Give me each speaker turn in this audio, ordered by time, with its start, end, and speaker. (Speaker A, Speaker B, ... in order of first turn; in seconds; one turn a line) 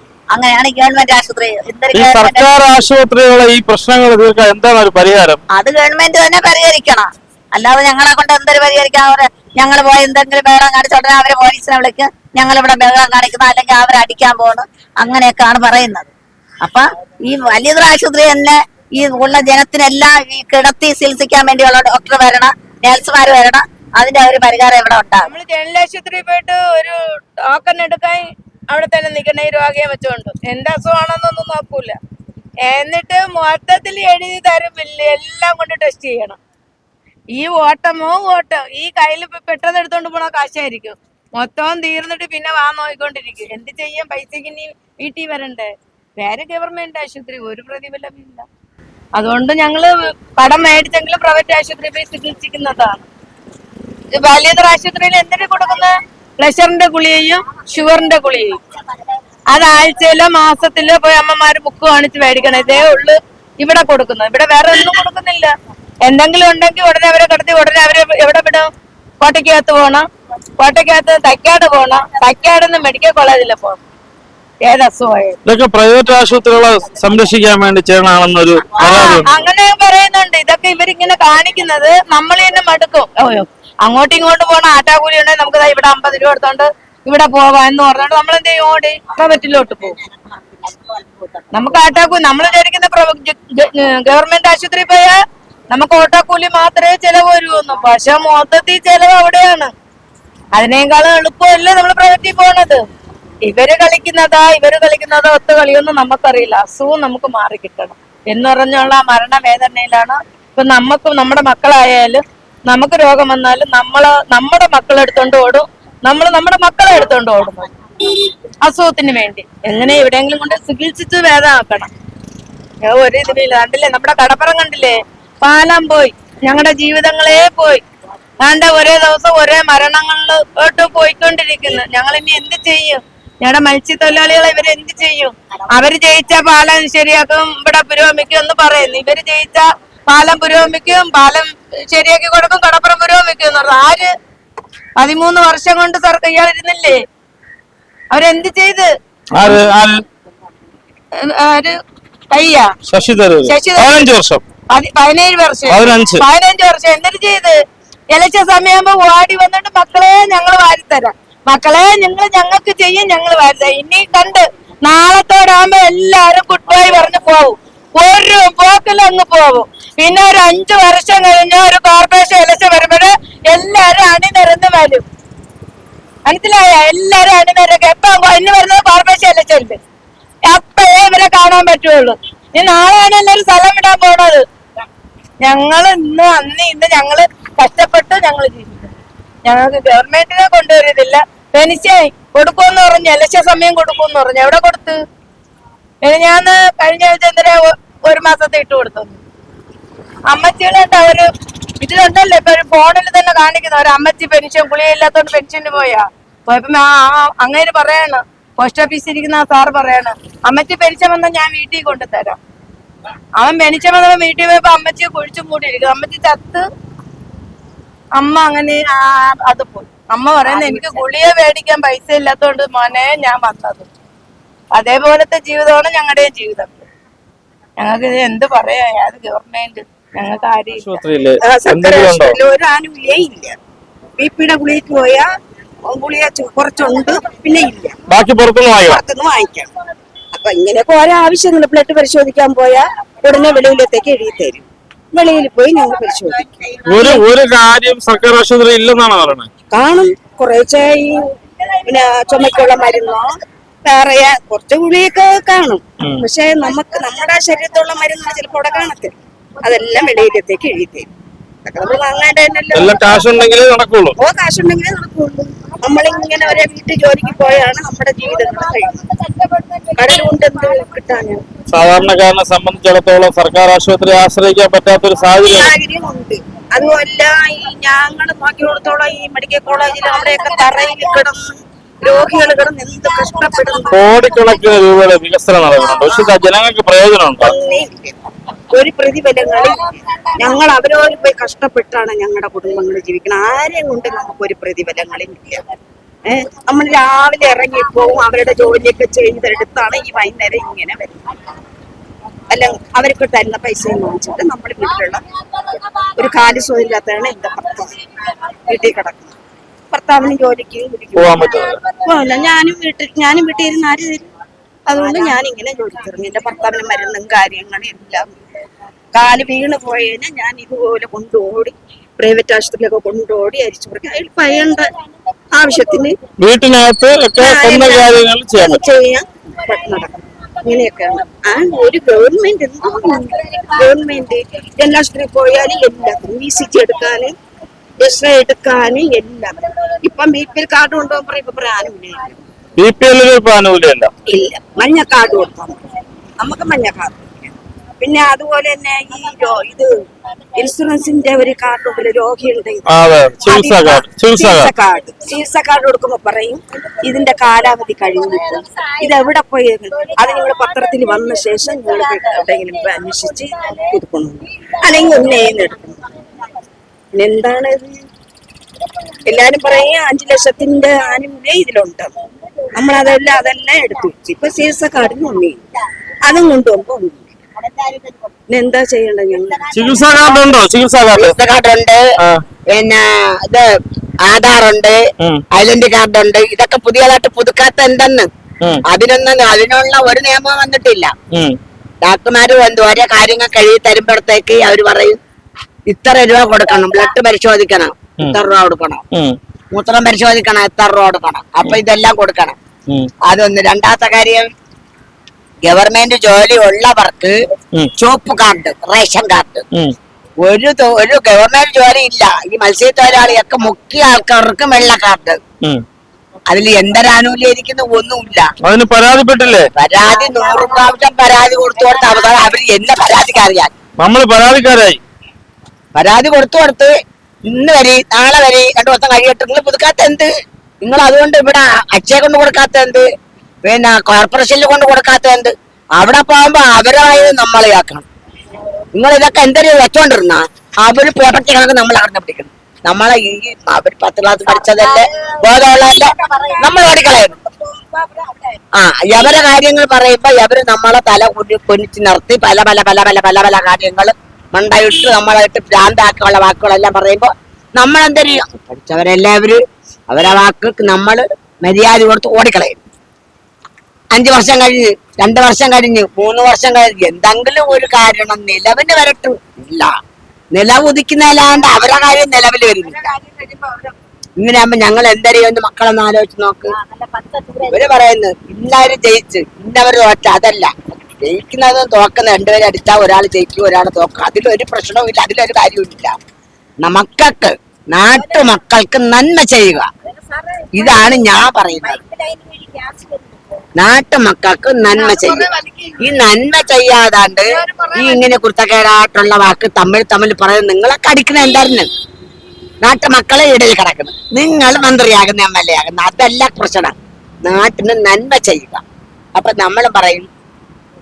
Speaker A: 0.3-2.5
Speaker B: 1.9-5.4
Speaker A: 5.5-25.3
Speaker C: 25.2-32.0
Speaker C: 32.7-36.4
Speaker C: 37.3-48.5
Speaker C: 49.2-53.1
Speaker C: 54.1-58.6
Speaker C: 59.5-65.5
Speaker C: 66.0-68.7
Speaker C: 69.2-70.1
Speaker C: 70.6-73.8
Speaker C: 74.6-75.4
Speaker B: 75.5-79.4
Speaker C: 78.8-90.0
Speaker C: 91.5-95.2
Speaker C: 95.7-99.7
Speaker C: 100.5-102.8
Speaker C: 103.5-117.7
Speaker C: 118.6-121.9
Speaker C: 122.8-127.8
Speaker C: 128.4-144.1
Speaker C: 145.0-147.0
Speaker C: 148.1-148.9
Speaker B: 149.3-150.0
Speaker C: 151.2-151.8
Speaker C: 152.3-152.7
Speaker B: 152.9-154.4
Speaker C: 153.4-154.1
Speaker C: 154.7-157.6
Speaker B: 155.7-156.2
Speaker C: 158.1-175.0
Speaker C: 176.3-179.8
Speaker C: 180.5-184.4
Speaker C: 185.4-195.0
Speaker C: 196.0-199.2
Speaker C: 200.3-201.3
Speaker C: 201.8-212.4
Speaker C: 213.4-216.6
Speaker C: 218.2-223.9
Speaker C: 224.8-226.8
Speaker C: 227.8-231.0
Speaker B: 230.8-232.4
Speaker D: 231.4-233.6
Speaker D: 234.2-235.3
Speaker D: 235.9-238.0
Speaker B: 238.1-239.0
Speaker D: 238.8-239.7
Speaker D: 240.3-247.2
Speaker B: 246.8-249.5
Speaker D: 249.7-251.2
Speaker D: 251.8-261.1
Speaker D: 261.6-263.3
Speaker B: 262.7-264.2
Speaker D: 264.2-269.0
Speaker D: 269.9-271.4
Speaker B: 271.7-275.7
Speaker D: 275.4-284.1
Speaker B: 283.9-287.5
Speaker D: 286.0-286.3
Speaker D: 287.4-288.2
Speaker D: 288.7-295.6
Speaker D: 296.3-301.2
Speaker D: 302.5-305.2
Speaker D: 306.2-307.9
Speaker D: 308.7-309.4
Speaker D: 309.9-314.3
Speaker B: 311.1-311.8
Speaker D: 314.9-318.4
Speaker D: 319.1-324.9
Speaker D: 325.5-326.2
Speaker B: 326.4-328.8
Speaker D: 327.4-337.3
Speaker D: 338.0-342.4
Speaker B: 342.8-344.1
Speaker D: 344.3-345.8
Speaker D: 346.4-349.9
Speaker D: 350.6-352.9
Speaker B: 352.9-354.7
Speaker D: 353.5-366.1
Speaker D: 367.1-367.9
Speaker D: 369.3-372.1
Speaker D: 372.7-375.6
Speaker D: 376.2-377.3
Speaker D: 378.5-379.7
Speaker B: 379.7-381.4
Speaker E: 381.1-382.0
Speaker E: 382.7-383.7
Speaker E: 384.3-385.0
Speaker E: 385.5-388.3
Speaker E: 388.9-391.1
Speaker B: 391.3-391.6
Speaker E: 392.0-395.2
Speaker E: 395.9-399.0
Speaker B: 399.1-399.4
Speaker E: 399.7-402.6
Speaker E: 403.3-404.5
Speaker E: 405.6-407.4
Speaker E: 408.0-409.7
Speaker E: 410.4-415.4
Speaker E: 416.5-418.5
Speaker B: 418.6-419.7
Speaker E: 419.8-423.7
Speaker B: 424.0-425.0
Speaker E: 425.9-426.9
Speaker E: 427.5-430.3
Speaker E: 430.8-433.1
Speaker E: 433.7-438.1
Speaker E: 438.9-447.4
Speaker A: 444.6-446.7
Speaker E: 448.8-459.6
Speaker E: 460.1-462.8
Speaker E: 464.1-469.9
Speaker E: 470.5-473.1
Speaker E: 474.4-476.8
Speaker A: 476.9-477.7
Speaker E: 477.7-486.1
Speaker E: 486.8-489.9
Speaker E: 490.7-492.0
Speaker A: 492.1-492.9
Speaker E: 493.8-495.5
Speaker C: 495.0-496.0
Speaker E: 496.0-501.9
Speaker C: 497.6-498.2
Speaker E: 502.8-508.8
Speaker E: 509.4-510.3